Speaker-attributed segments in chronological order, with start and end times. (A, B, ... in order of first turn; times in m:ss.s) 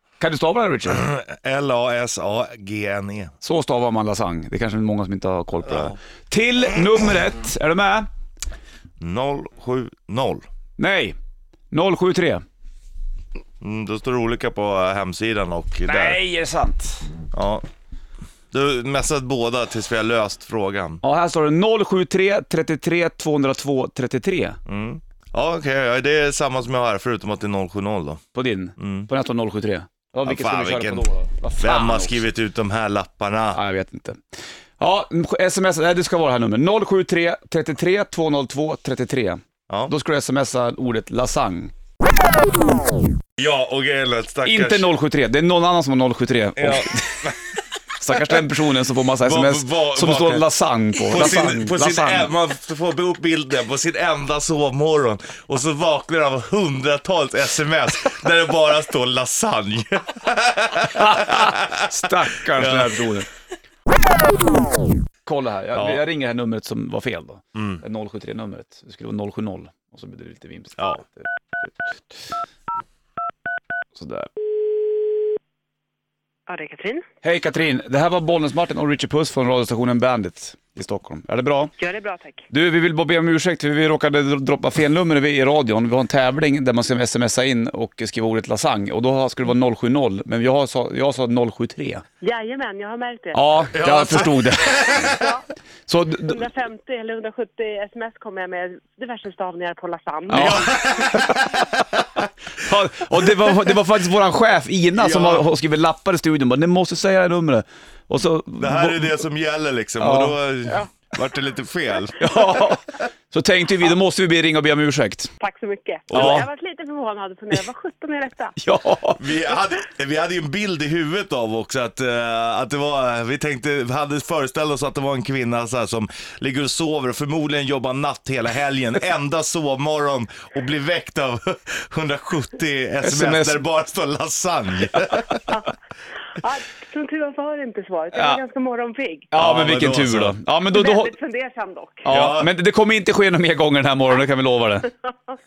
0:00.2-0:01.1 A
0:00.9-0:03.3 B
0:03.4-0:08.1 A
0:05.7-0:06.0 B
0:09.0-0:10.4 B
0:10.8-0:11.2 A
0:11.7-0:12.4 A
0:13.6-0:16.2 B
0:15.8-0:17.1 A
0:17.3-0:17.6 B
0:18.5-0:21.0 B
0:21.0-0:24.6 A
0:24.7-0:28.2 B
0:28.3-0:32.2 A
0:28.8-0:29.1 B
0:30.2-0:31.1 B
0:31.6-0:33.6 B
0:33.5-0:34.2 A
0:34.8-0:41.7 A
0:43.4-0:44.9 B
0:44.5-0:47.2 A
0:46.6-0:47.4 B
0:48.0-0:52.3 A
0:49.2-0:50.5 B
0:51.0-1:03.1 B
1:00.9-1:03.3 A
1:05.2-1:12.0 A
1:05.8-1:06.0 B
1:07.6-1:07.8 B
1:14.0-1:14.3 A
1:16.5-1:17.0 C
1:17.2-1:21.7 A
1:21.8-1:22.4 C
1:22.5-1:32.0 A
1:32.2-1:33.7 C
1:33.3-1:35.2 A
1:33.7-1:35.3 B
1:35.0-1:35.4 C
1:35.9-1:36.4 A
1:36.3-1:40.7 C
1:40.3-1:41.6 A
1:40.3-1:42.0 B
1:42.6-1:49.1 A
1:45.0-1:45.5 B
1:48.6-1:52.6 B
1:50.0-1:50.4 A
1:52.2-1:55.3 A
1:55.4-1:58.6 C
1:56.1-1:56.4 B
1:56.1-1:56.5 A
1:58.6-1:59.2 A
1:59.2-2:15.5 B
2:13.0-2:13.6 A
2:15.0-2:15.4 A
2:16.4-2:19.3 C
2:18.1-2:18.4 A
2:19.3-2:21.2 A
2:19.4-2:20.4 B
2:20.7-2:22.1 C
2:22.0-2:24.9 A
2:22.1-2:22.5 B